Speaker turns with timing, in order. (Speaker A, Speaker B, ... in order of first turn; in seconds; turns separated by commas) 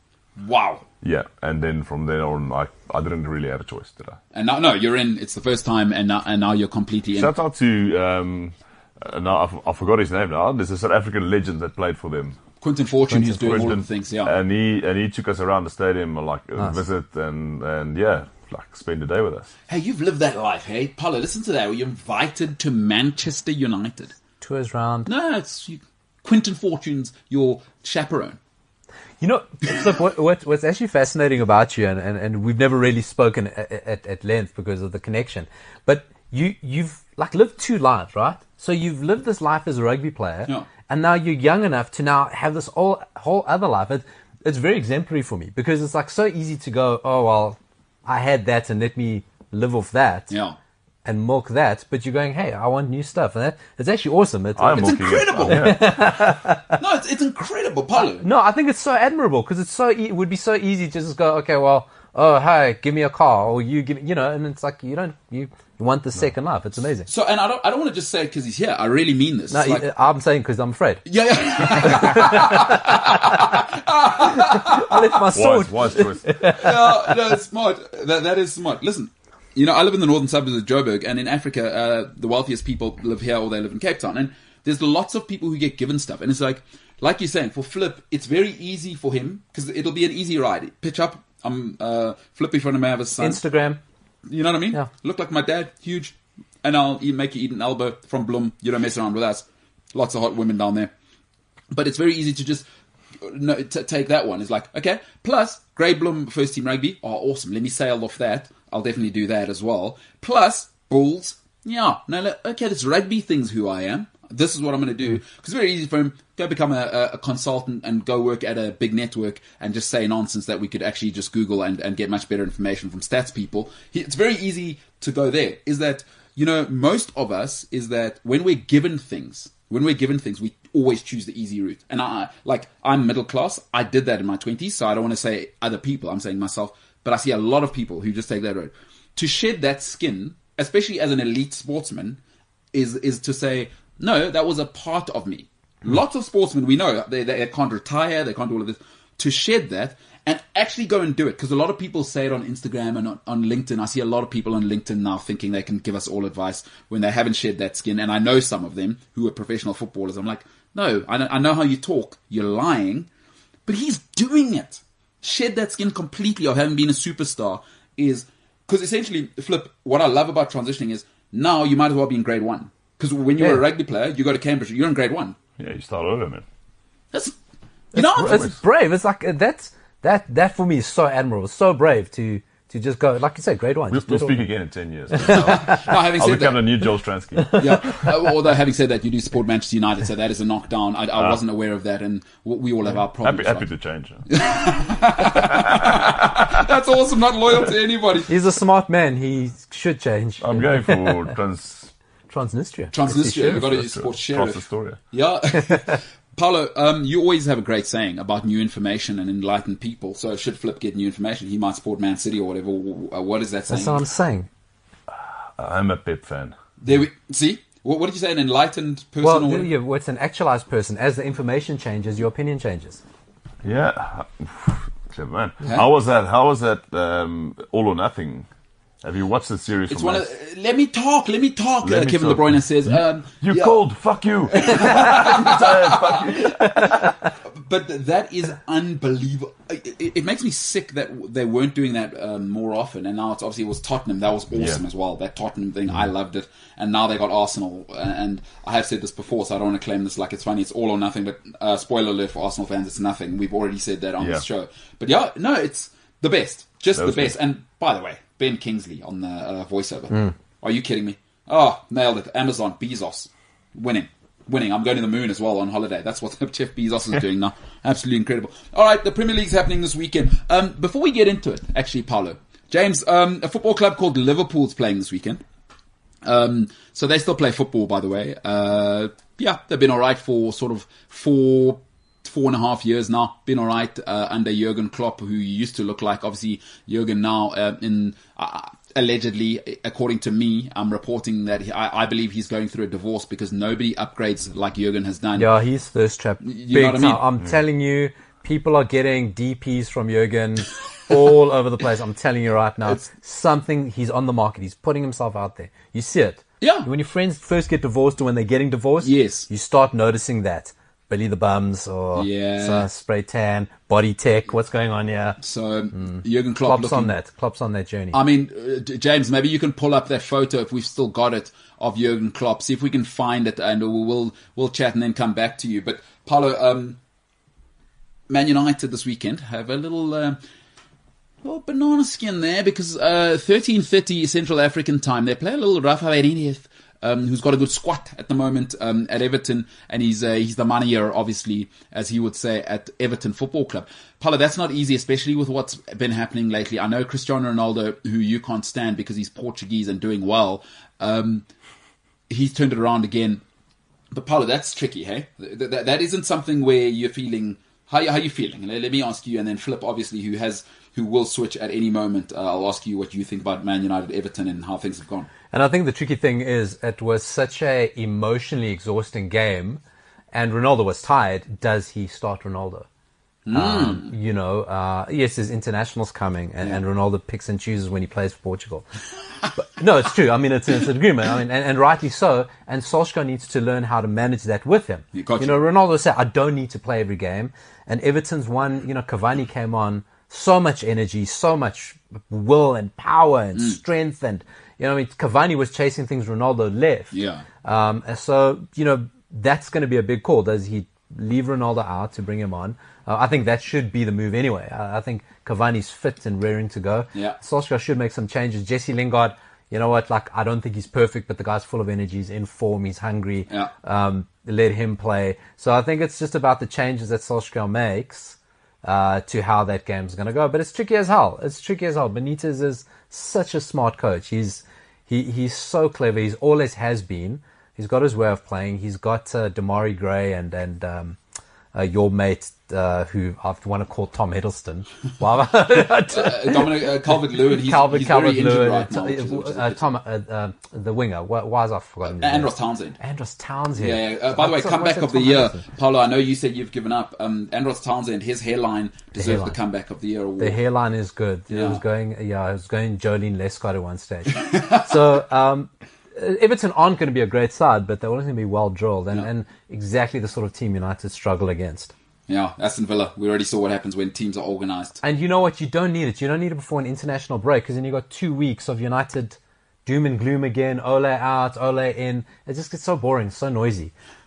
Speaker A: 0.4-0.8, Speaker B: 1.0-4.2, Speaker A: 4.3-7.3, Speaker B: 7.2-12.4, Speaker A: 12.6-14.3, Speaker C: 13.1-13.7, Speaker B: 13.4-19.5, Speaker A: 19.7-24.1, Speaker C: 24.4-25.1, Speaker A: 25.1-28.4, Speaker C: 29.2-50.3, Speaker A: 50.3-50.6, Speaker C: 51.0-56.8, Speaker B: 54.6-56.1, Speaker A: 54.7-56.0, Speaker A: 56.8-58.3, Speaker C: 58.0-67.1, Speaker A: 67.1-69.9, Speaker C: 69.5-71.0, Speaker A: 71.1-75.1, Speaker C: 71.8-72.8, Speaker C: 74.2-77.0, Speaker B: 75.3-76.5, Speaker A: 76.5-93.4, Speaker C: 93.2-93.8, Speaker A: 94.3-100.9, Speaker A: 101.7-102.7, Speaker A: 103.2-142.2, Speaker A: 142.7-163.1, Speaker A: 163.7-175.4, Speaker C: 173.4-173.6, Speaker B: 175.6-176.4, Speaker A: 177.9-178.5, Speaker C: 177.9-184.4, Speaker B: 178.2-178.6, Speaker B: 183.9-188.0, Speaker A: 185.2-186.7, Speaker A: 187.5-193.7, Speaker B: 193.2-194.4, Speaker A: 194.3-198.3, Speaker B: 195.2-196.4, Speaker C: 198.3-201.3, Speaker B: 200.4-201.9, Speaker C: 202.3-203.6, Speaker A: 202.9-214.0, Speaker B: 203.4-205.0, Speaker C: 213.7-214.5, Speaker B: 215.6-216.6, Speaker A: 216.8-219.7, Speaker C: 219.2-223.0, Speaker B: 223.6-228.5, Speaker B: 229.0-230.3, Speaker A: 229.9-233.8, Speaker B: 231.8-237.0, Speaker A: 234.5-275.4, Speaker B: 244.6-244.8, Speaker B: 256.9-257.4, Speaker A: 276.2-295.5, Speaker C: 295.4-315.4, Speaker A: 296.4-297.2, Speaker A: 306.6-306.9, Speaker A: 309.0-309.5, Speaker A: 312.1-312.9, Speaker A: 315.4-317.1, Speaker C: 316.0-318.2, Speaker A: 318.1-327.0, Speaker A: 328.3-330.4, Speaker A: 331.4-351.4, Speaker A: 352.3-353.4, Speaker A: 354.1-365.3, Speaker C: 365.5-369.8, Speaker C: 370.3-372.9, Speaker A: 373.4-374.1, Speaker C: 373.5-378.9, Speaker C: 379.6-431.2, Speaker A: 385.1-385.6, Speaker A: 397.1-397.4, Speaker C: 431.7-436.8, Speaker A: 436.1-439.9, Speaker C: 437.4-445.6, Speaker A: 442.1-443.0, Speaker A: 443.8-450.6, Speaker C: 449.2-449.6, Speaker C: 450.4-461.9, Speaker A: 451.5-451.8, Speaker A: 454.3-454.8, Speaker A: 462.3-465.0, Speaker C: 465.0-473.9